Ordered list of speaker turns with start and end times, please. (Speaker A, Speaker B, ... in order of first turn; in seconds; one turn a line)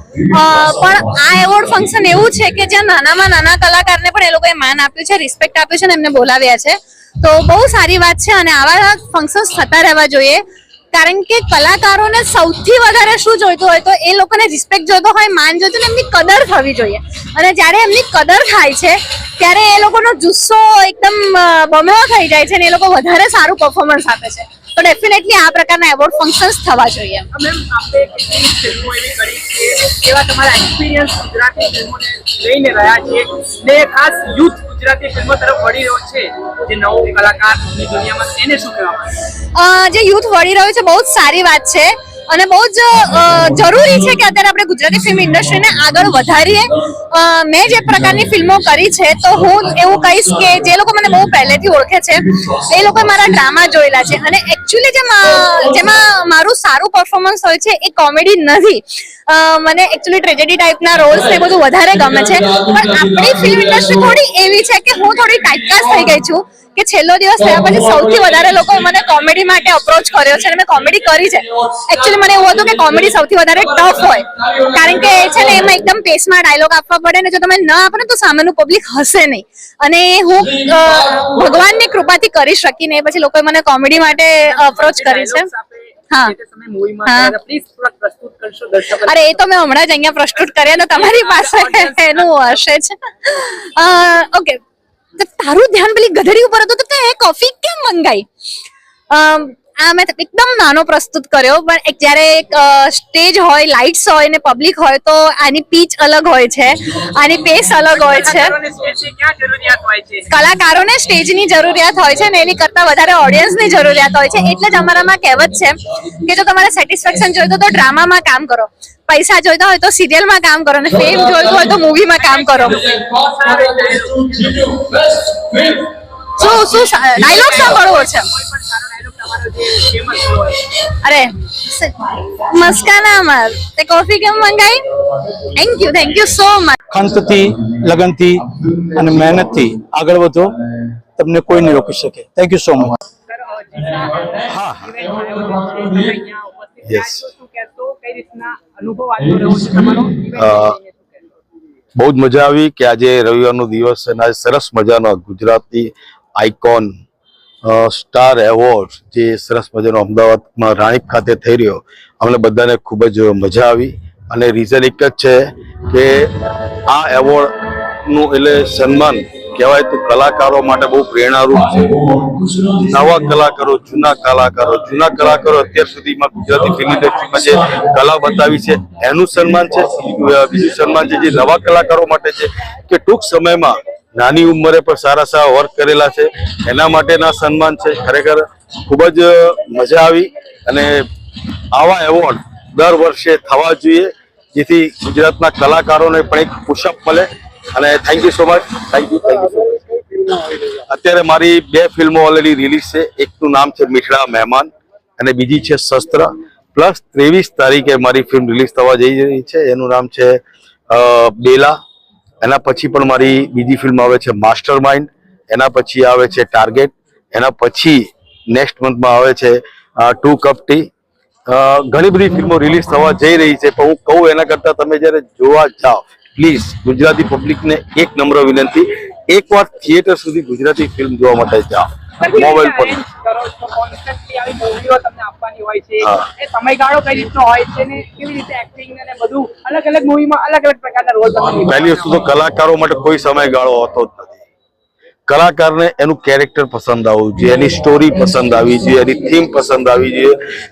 Speaker A: 0.3-27.3
Speaker B: 27.3-39.1
Speaker A: 39.5-85.5
Speaker B: 84.5-89.4
Speaker A: 86.1-86.3
Speaker A: 87.0-87.3
Speaker A: 89.0-94.6
Speaker B: 90.4-92.7
Speaker A: 95.2-98.3
Speaker A: 99.1-108.5
Speaker B: 107.9-110.3
Speaker A: 110.3-122.8
Speaker B: 122.1-124.8
Speaker A: 126.4-128.3
Speaker B: 126.4-130.6
Speaker A: 131.0-134.8
Speaker A: 135.6-136.8
Speaker C: 136.9-140.5
Speaker C: 141.2-142.9
Speaker B: 143.3-151.4
Speaker D: 146.8-147.2
Speaker D: 150.3-150.8
Speaker D: 151.9-156.9
Speaker D: 157.6-166.3
Speaker D: 166.9-167.5
Speaker D: 168.1-172.0
Speaker D: 172.8-191.1
Speaker D: 191.7-199.8
Speaker D: 200.9-210.4
Speaker D: 210.9-211.8
Speaker D: 212.4-220.9
Speaker D: 221.5-233.0
Speaker B: 232.2-242.2
Speaker D: 241.7-244.4
Speaker D: 245.3-250.4